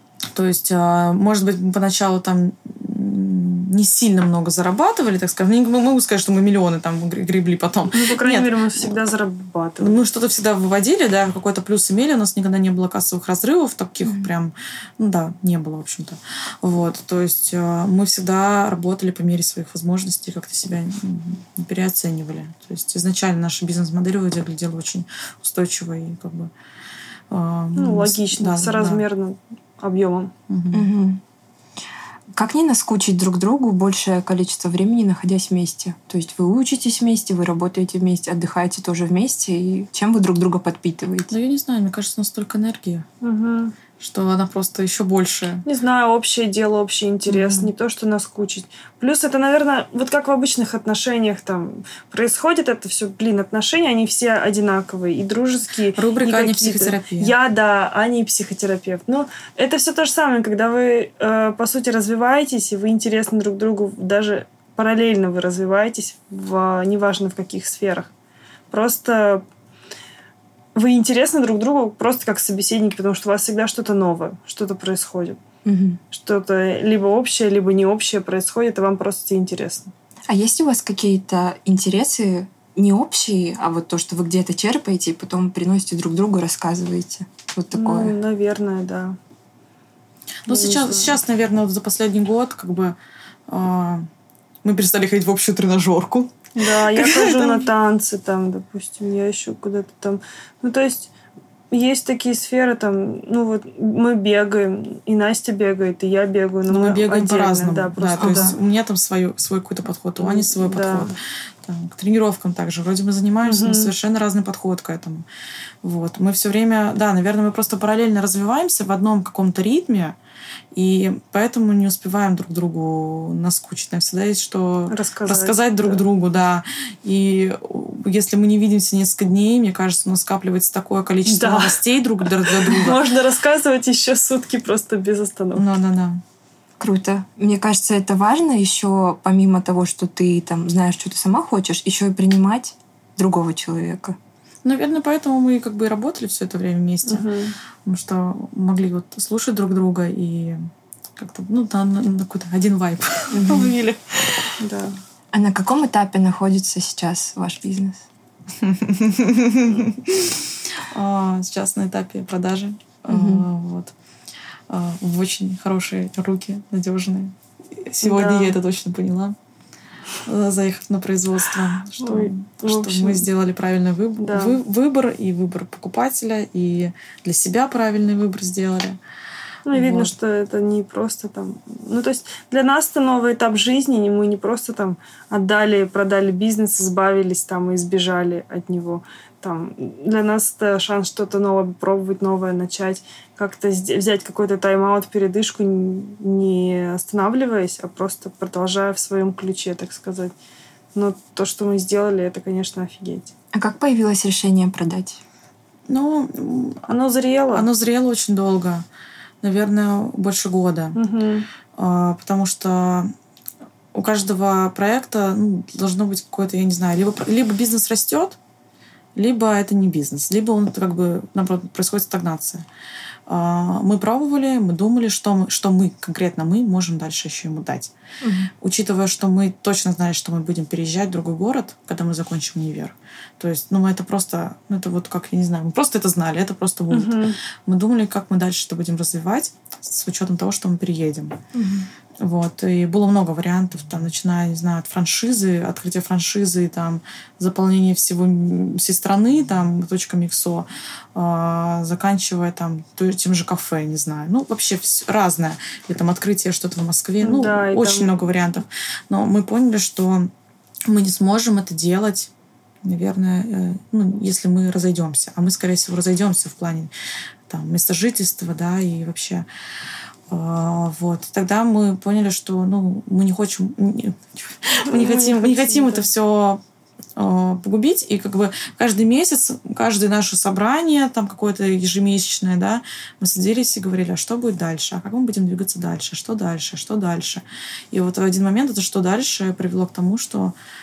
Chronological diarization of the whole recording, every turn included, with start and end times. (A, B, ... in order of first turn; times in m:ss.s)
0:00.3-0:08.9 A
0:07.9-0:10.0 B
0:09.8-0:26.5 A
0:27.3-0:29.0 A
0:27.8-0:30.3 B
0:30.5-0:30.9 A
0:30.7-0:31.2 C
0:32.3-0:41.3 C
0:41.3-0:43.1 A
0:43.2-0:43.8 B
0:44.0-0:45.6 A
0:45.6-1:08.1 B
0:47.3-0:47.7 A
0:56.0-0:57.3 A
1:08.7-1:09.4 B
1:10.8-1:15.4 B
1:15.6-1:16.0 C
1:16.1-1:19.9 B
1:20.3-1:28.2 C
1:27.7-1:29.2 B
1:30.4-1:33.0 A
1:30.5-1:31.2 B
1:33.5-1:34.1 A
1:34.6-1:36.4 A
1:36.6-1:41.1 B
1:36.9-1:37.7 A
1:41.7-1:48.6 B
1:46.7-1:55.3 A
1:48.2-1:48.6 C
1:50.2-1:51.1 B
1:53.4-1:53.9 B
1:55.8-2:00.2 A
2:00.7-2:13.0 A
2:04.9-2:06.0 B
2:11.3-2:15.7 B
2:15.6-2:16.2 A
2:16.8-2:24.2 C
2:24.6-2:27.3 A
2:27.1-2:27.6 B
2:27.8-2:30.6 A
2:31.2-2:34.5 A
2:33.3-2:33.7 C
2:34.6-2:35.0 B
2:35.3-2:38.0 C
2:38.6-2:43.9 A
2:43.1-2:43.5 C
2:44.7-2:49.4 A
2:48.0-2:48.6 B
2:50.3-2:59.0 A
2:52.0-2:53.3 B
2:54.2-2:54.6 B
2:59.7-3:20.4 B
2:59.7-3:00.1 A
3:21.0-3:23.3 B
3:23.5-3:25.2 C
3:25.9-3:26.9 A
3:26.9-3:27.7 B
3:27.5-3:28.9 A
3:29.4-3:31.0 A
3:31.0-3:31.5 B
3:31.8-3:33.1 A
3:33.9-3:38.4 A
3:39.2-3:42.7 A
3:43.3-3:47.9 A
3:48.2-3:48.5 C
3:48.6-4:01.4 A
3:56.9-3:57.4 B
4:01.5-4:01.9 C
4:02.2-4:20.3 A
4:17.2-4:18.1 B
4:20.9-4:22.3 A
4:22.8-4:26.9 A
4:27.5-4:29.5 A
4:30.3-4:36.6 A
4:34.9-4:36.1 B
4:37.2-4:50.6 A